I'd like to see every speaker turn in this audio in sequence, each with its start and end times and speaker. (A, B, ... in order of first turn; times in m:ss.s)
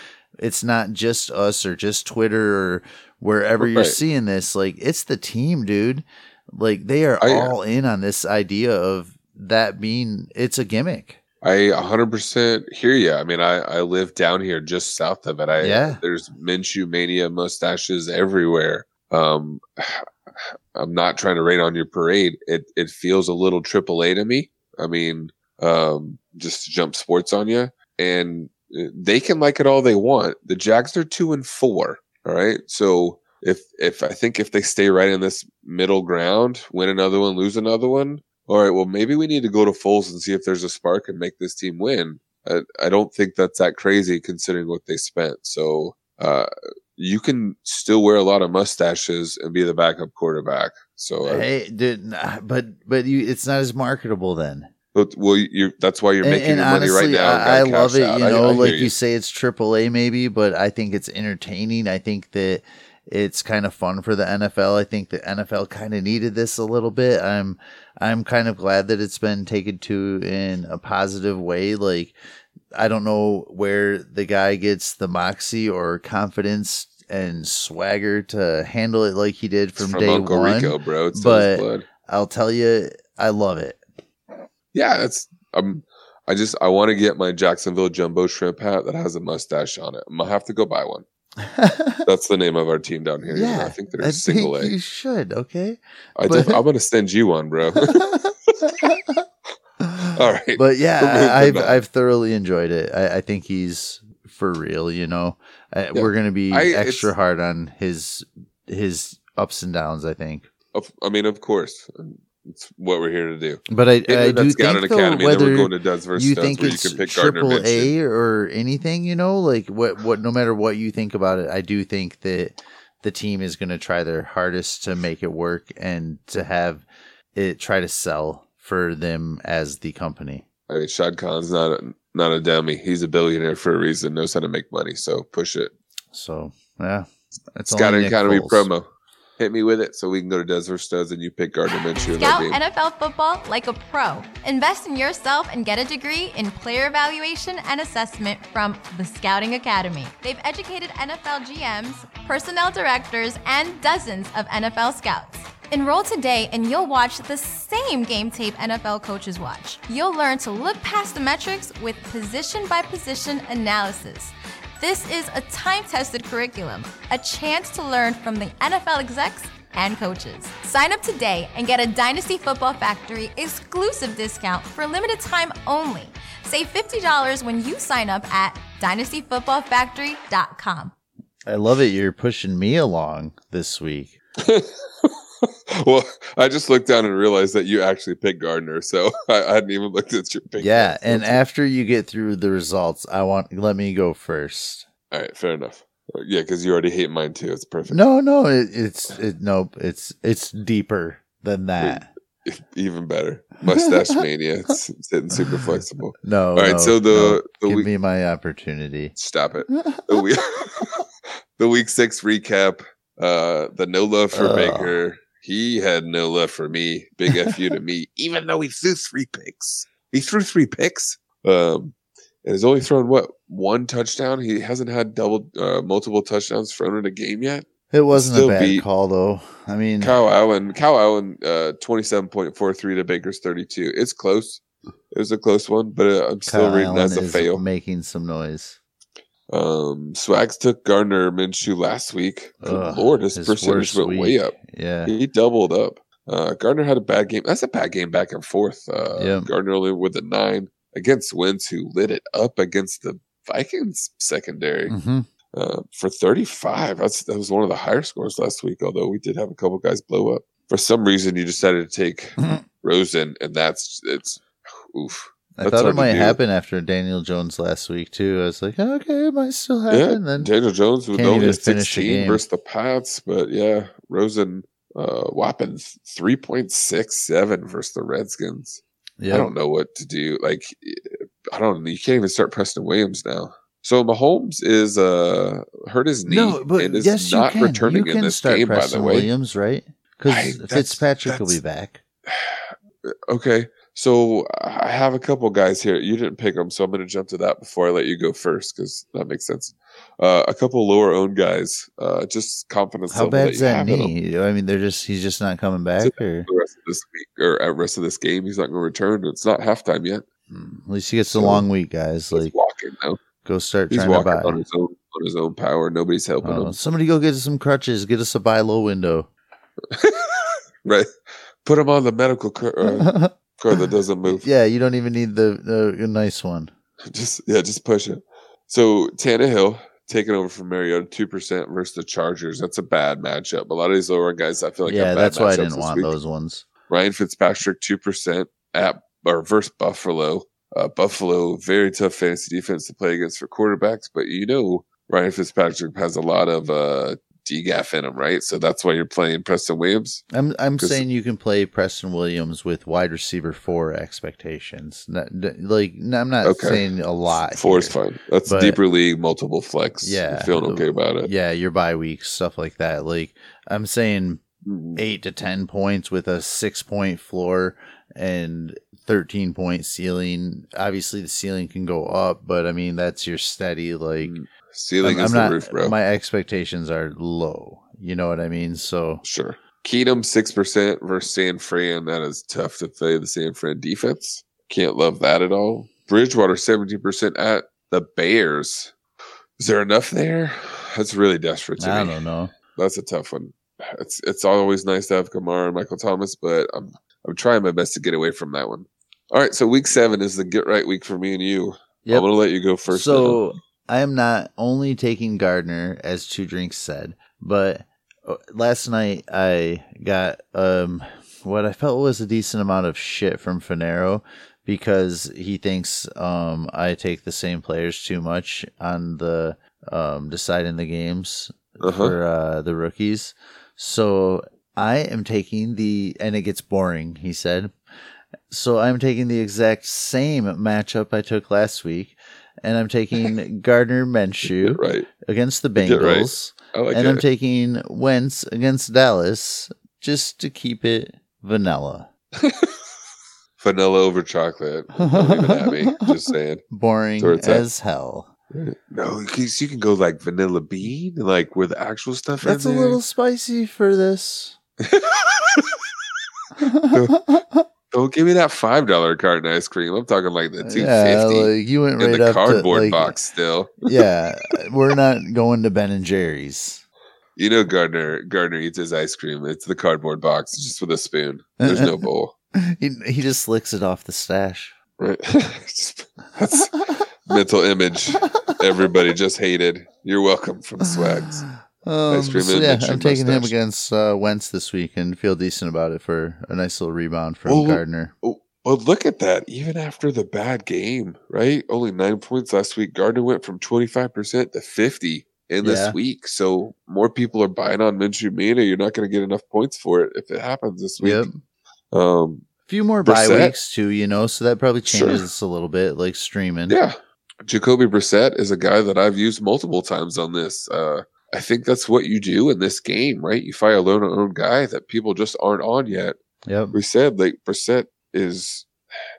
0:00.4-0:11.2 A
0:03.6-0:04.0 B
0:07.2-0:07.5 B
0:11.4-0:20.0 B
0:15.6-0:16.0 A
0:20.7-0:51.5 B
0:51.2-0:54.7 A
0:54.9-0:58.9 B
0:56.2-1:12.2 A
1:12.7-1:23.8 A
1:19.8-1:21.8 B
1:24.7-1:31.0 B
1:31.4-1:32.1 A
1:32.0-1:34.7 B
1:33.3-1:36.6 A
1:36.2-1:38.9 B
1:37.8-1:39.2 A
1:39.8-1:50.5 A
1:40.1-1:41.8 B
1:45.9-1:47.1 B
1:50.7-1:57.9 B
1:53.7-2:10.4 A
2:10.7-2:15.7 B
2:16.1-2:18.7 A
2:17.7-2:18.8 B
2:19.4-2:22.6 B
2:22.1-3:00.9 C
3:01.4-3:04.1 A
3:04.4-3:11.4 B
3:10.6-3:14.9 A
3:15.1-3:18.0 B
3:17.9-3:22.1 A
3:21.8-3:27.9 B
3:26.2-3:29.1 A
3:29.2-3:31.0 B
3:29.7-3:30.2 A
3:31.6-3:48.8 B
3:34.3-3:35.0 A
3:47.9-3:50.1 A
3:50.0-3:57.6 B
3:56.5-3:58.8 A
3:59.5-4:04.5 B
4:02.6-4:05.1 A
4:05.0-4:15.0 B
4:09.2-4:09.5 A
4:14.9-4:15.3 A
4:15.5-4:26.4 B
4:25.6-4:30.5 A
4:29.9-4:49.3 B
4:31.1-4:32.4 A
4:39.2-4:39.5 A
4:46.2-4:52.0 A
4:50.3-4:51.6 B
4:52.3-4:52.7 B
4:53.3-5:04.1 B
5:03.1-5:06.5 A
5:06.0-5:10.2 B
5:10.5-5:12.5 A
5:11.2-5:11.7 B
5:12.3-5:13.2 B
5:13.4-5:14.6 A
5:13.9-5:16.8 B
5:16.4-5:19.3 A
5:19.9-5:21.1 B
5:21.6-5:24.4 B
5:22.8-5:23.3 A
5:24.2-5:26.7 A
5:27.1-5:36.2 B
5:34.8-5:36.6 A
5:36.9-5:50.2 B
5:50.3-5:58.8 A
5:50.8-5:51.0 B
5:56.4-5:56.8 B
5:57.5-6:01.3 B
6:00.0-6:04.4 A
6:04.6-6:05.0 B
6:04.9-6:14.4 A
6:14.2-6:16.0 B
6:15.0-6:19.2 A
6:19.2-6:28.9 B
6:29.6-6:32.2 B
6:31.8-6:32.5 A
6:32.7-6:43.4 B
6:42.9-7:07.7 A
7:01.8-7:02.2 B
7:08.5-7:22.1 A
7:14.4-7:15.1 B
7:15.8-7:17.2 B
7:22.4-7:22.7 B
7:23.6-7:26.6 B
7:25.0-7:28.3 A
7:27.2-7:27.6 B
7:28.5-7:33.0 B
7:32.4-7:34.6 A
7:34.8-7:35.7 B
7:36.6-7:37.6 A
7:36.9-7:37.2 B
7:37.9-7:43.9 B
7:40.6-7:43.1 A
7:43.8-7:46.8 A
7:47.4-7:52.3 B
7:51.6-7:51.9 A
7:52.6-7:54.8 A
7:55.0-8:01.4 B
8:00.9-8:08.1 A
8:02.1-8:03.5 B
8:07.4-8:21.3 B
8:15.6-8:16.0 A
8:21.0-8:21.4 A
8:21.9-8:22.5 B
8:22.6-8:26.8 A
8:23.0-8:23.5 B
8:24.8-8:25.2 B
8:26.7-8:36.2 B
8:36.4-8:36.8 A
8:36.7-8:38.7 B